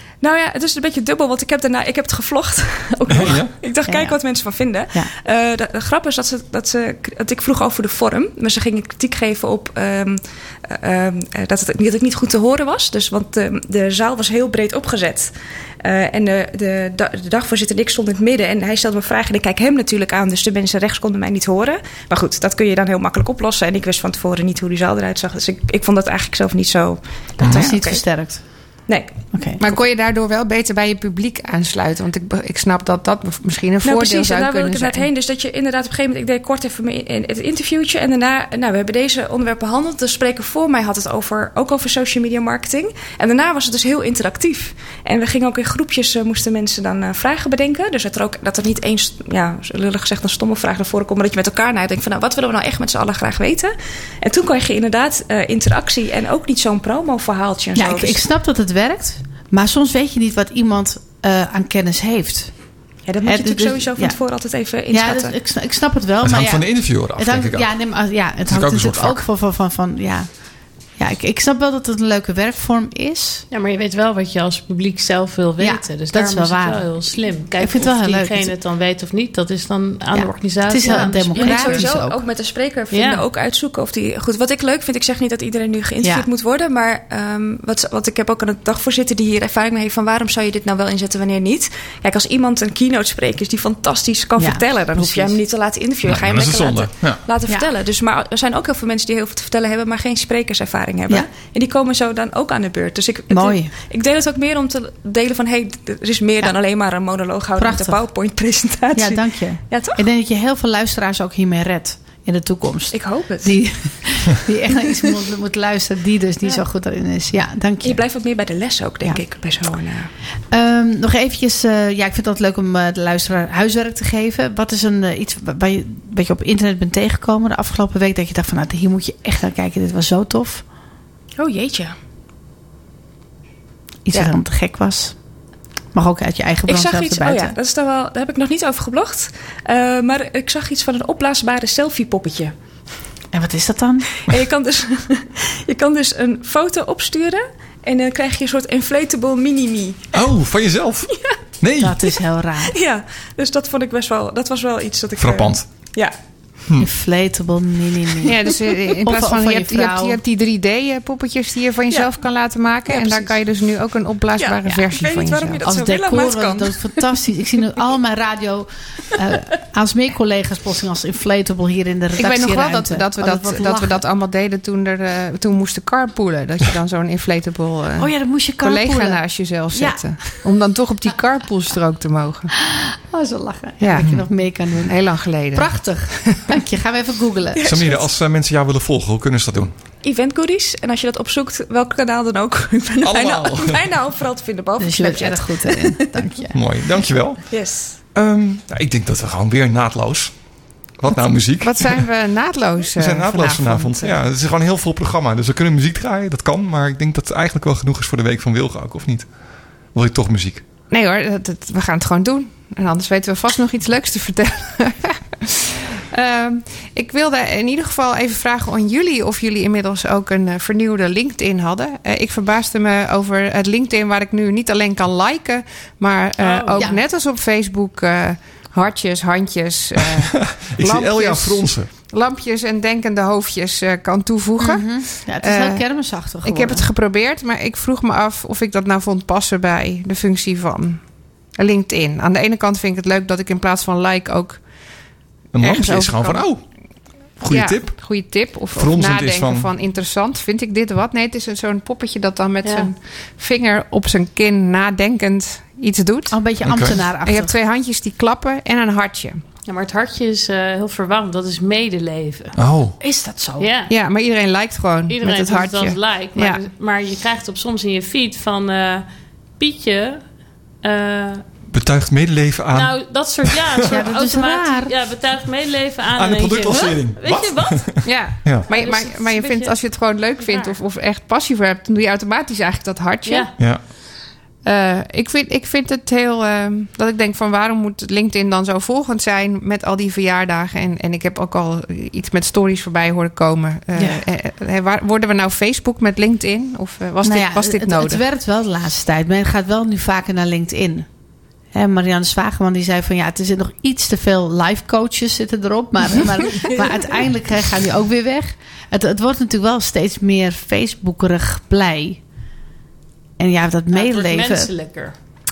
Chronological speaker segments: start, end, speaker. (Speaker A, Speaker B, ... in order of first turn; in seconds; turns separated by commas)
Speaker A: 0.2-29.7, Speaker B: 3.1-3.5, Speaker C: 3.8-5.1, Speaker B: 27.4-27.7, Speaker C: 27.4-29.6, Speaker D: 29.6-35.0, Speaker A: 33.8-58.2, Speaker C: 57.7-73.4, Speaker A: 63.0-65.3, Speaker B: 66.2-69.2, Speaker E: 73.5-81.8, Speaker C: 75.6-78.5, Speaker C: 80.1-82.2, Speaker A: 80.8-110.0, Speaker E: 82.9-83.2, Speaker C: 86.0-86.3, Speaker C: 94.4-95.4, Speaker B: 96.0-97.2, Speaker C: 103.3-103.7, Speaker C: 107.6-108.0, Speaker C: 108.9-118.0, Speaker A: 112.9-114.0, Speaker A: 117.8-120.1, Speaker C: 120.5-130.7, Speaker A: 131.4-131.9, Speaker C: 134.1-135.2, Speaker C: 135.9-137.6, Speaker A: 136.7-142.5, Speaker C: 143.3-144.1, Speaker A: 144.2-150.3, Speaker B: 150.1-152.2, Speaker A: 151.1-151.5, Speaker C: 151.8-152.7, Speaker A: 152.6-156.2, Speaker B: 155.2-156.0, Speaker C: 156.8-158.4, Speaker D: 158.2-165.6, Speaker C: 159.0-160.2, Speaker A: 162.9-163.4, Speaker A: 164.4-167.1, Speaker C: 165.6-174.0, Speaker D: 172.2-182.5, Speaker C: 177.9-180.4, Speaker C: 182.8-187.8, Speaker D: 183.8-184.1, Speaker D: 184.8-186.6, Speaker A: 187.5-188.1, Speaker B: 187.6-189.7, Speaker A: 190.0-196.2, Speaker B: 193.0-193.8, Speaker C: 194.8-196.6, Speaker B: 196.5-202.3, Speaker A: 197.5-198.0, Speaker D: 201.6-204.2, Speaker B: 202.9-210.6, Speaker D: 210.9-244.7, Speaker E: 226.4-226.9, Speaker C: 226.8-227.0, Speaker B: 230.5-231.9, Speaker C: 234.6-236.9, Speaker B: 245.5-246.7, Speaker D: 245.6-246.7, Speaker B: 247.3-249.7, Speaker D: 247.4-256.4, Speaker E: 252.6-252.9, Speaker C: 256.3-257.6, Speaker B: 256.6-257.0, Speaker D: 257.2-259.4, Speaker E: 259.6-262.6, Speaker B: 262.6-262.9, Speaker C: 263.0-263.7, Speaker E: 263.6-263.9, Speaker D: 263.9-266.6, Speaker E: 265.1-271.4, Speaker B: 271.7-273.6, Speaker E: 272.7-280.8, Speaker C: 273.9-275.1, Speaker B: 276.1-278.6, Speaker D: 278.0-283.9, Speaker E: 283.2-283.5, Speaker B: 283.6-283.8, Speaker D: 284.6-298.2, Speaker C: 293.9-294.3, Speaker C: 297.2-301.1, Speaker C: 301.7-312.2, Speaker C: 313.4-314.9, Speaker E: 313.9-315.1